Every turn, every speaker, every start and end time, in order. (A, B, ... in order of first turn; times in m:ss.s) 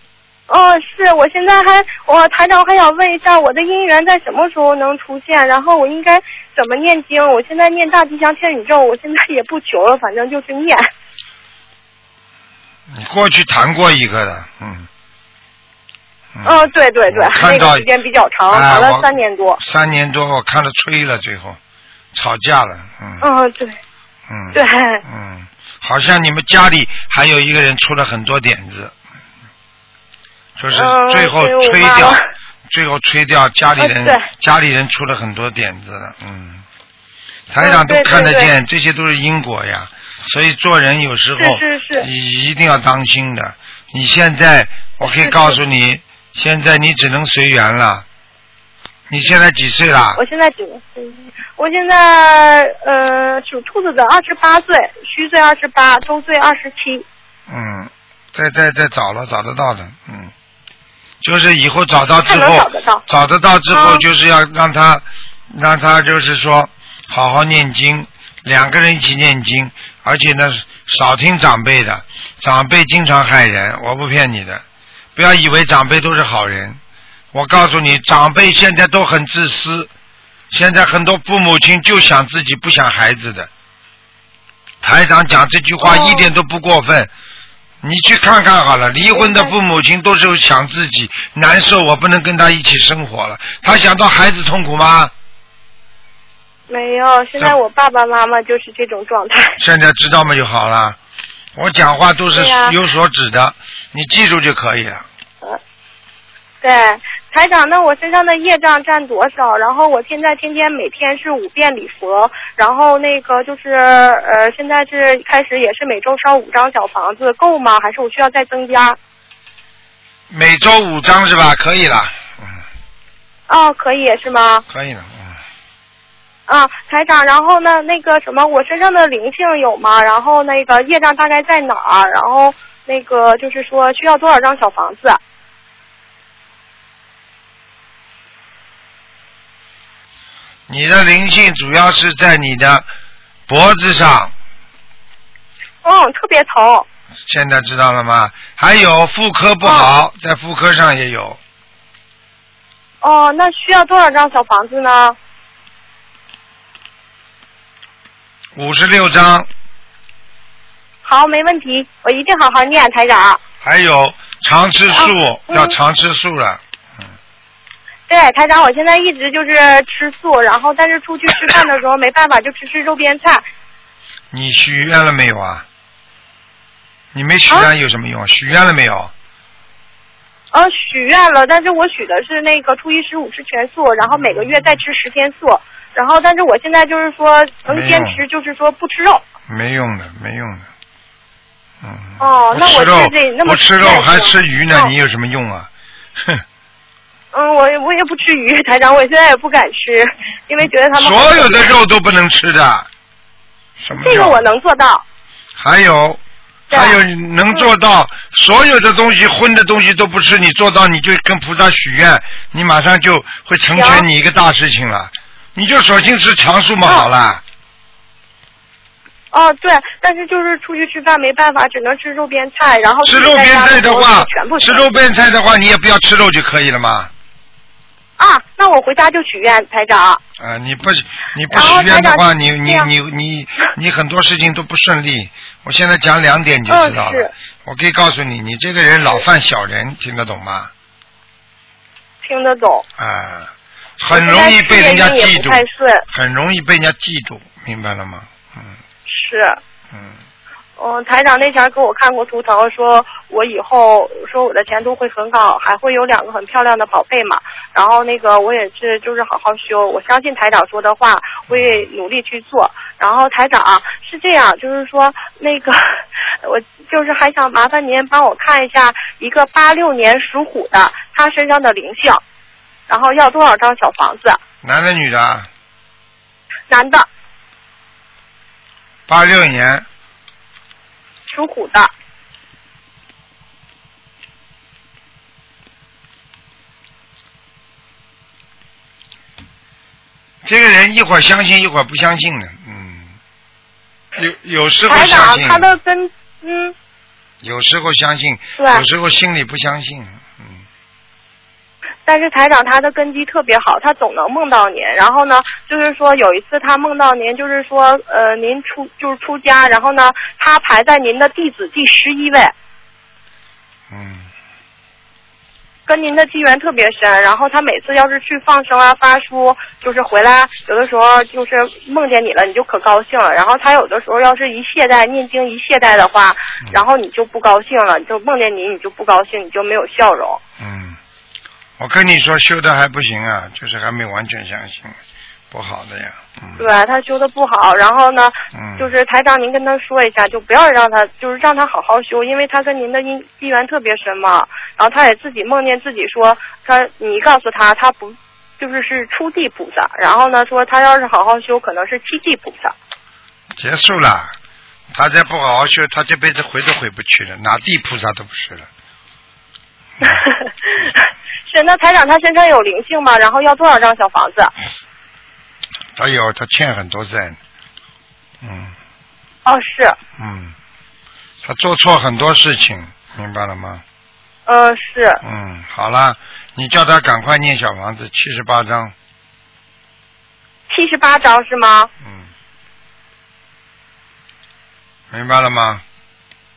0:00.5-0:10.9 A
0:12.9-0:14.9 B
0:16.4-0:17.9 B
0:16.4-0:19.6 A
0:18.5-0:21.6 B
0:22.1-0:23.2 B
0:23.2-0:23.8 A
0:24.3-0:28.9 B
0:24.5-0:25.0 A
0:30.6-0:36.6 B
0:30.7-0:32.2 A
0:33.8-0:34.3 A
0:37.5-0:48.0 B
0:37.6-0:38.5 A
0:41.4-0:42.1 A
0:45.0-0:45.6 A
0:49.1-0:50.2 B
0:50.2-0:57.0 A
0:57.5-1:00.3 B
1:01.2-1:14.6 B
1:02.2-1:03.0 A
1:03.7-1:04.0 A
1:15.2-1:16.8 B
1:17.3-1:19.9 B
1:20.5-1:23.5 B
1:24.8-1:27.1 B
1:25.8-1:26.3 A
1:27.8-1:35.1 B
1:29.1-1:29.5 A
1:36.7-1:39.6 A
1:39.6-1:41.0 B
1:41.6-1:45.0 B
1:42.3-1:42.8 A
1:46.6-1:59.0 A
2:00.3-2:02.5 B
2:03.5-2:04.6 A
2:04.7-2:05.4 B
2:06.5-2:15.2 A
2:20.7-2:22.9 B
2:23.5-2:24.3 B
2:25.8-2:26.9 A
2:27.3-2:31.4 B
2:29.6-2:29.9 A
2:33.0-2:35.2 A
2:38.6-2:39.5 B
2:41.0-2:43.4 A
2:43.6-2:46.6 B
2:44.9-2:45.8 A
2:48.1-2:53.4 A
2:54.3-2:55.7 B
2:57.1-2:59.1 B
3:00.5-3:09.2 A
3:07.7-3:08.2 B
3:09.5-3:10.6 B
3:11.8-3:16.4 B
3:12.2-3:14.9 A
3:17.3-3:21.7 A
3:21.0-3:22.9 B
3:23.8-3:24.5 B
3:24.0-3:25.0 A
3:25.6-3:26.2 B
3:26.7-3:27.0 A
3:26.7-3:37.4 B
3:33.8-3:34.0 A
3:39.3-3:45.0 A
3:43.0-3:47.1 B
3:48.2-3:50.2 A
3:50.4-4:00.7 B
3:51.5-3:52.9 A
3:56.7-3:57.3 A
4:02.2-4:02.9 A
4:03.0-4:08.7 B
4:04.1-4:06.0 A
4:09.1-4:09.6 A
4:10.8-4:25.8 A
4:21.5-4:21.8 B
4:26.4-4:32.2 A
4:32.9-4:34.4 A
4:34.6-4:35.5 B
4:36.7-4:37.1 A
4:39.1-4:39.8 B
4:41.3-4:41.9 A
4:50.4-4:53.1 B
4:54.2-4:55.7 B
4:54.9-4:56.8 A
4:57.4-5:00.6 B
4:58.6-4:58.8 A
5:02.1-5:12.5 A
5:13.9-5:14.3 B
5:15.9-5:30.4 A
5:30.6-5:31.0 B
5:31.8-5:35.0 B
5:35.5-5:36.6 B
5:36.6-5:52.7 A
5:38.5-5:38.9 B
5:53.6-5:54.3 B
5:54.9-5:58.7 B
6:00.0-6:00.9 A
6:01.5-6:04.5 A
6:06.0-6:07.4 B
6:08.4-6:08.7 B
6:09.4-6:10.0 A
6:10.2-6:10.5 B
6:11.4-6:13.8 B
6:14.5-6:15.2 A
6:15.2-6:18.9 B
6:20.7-6:21.9 A
6:25.1-6:25.8 B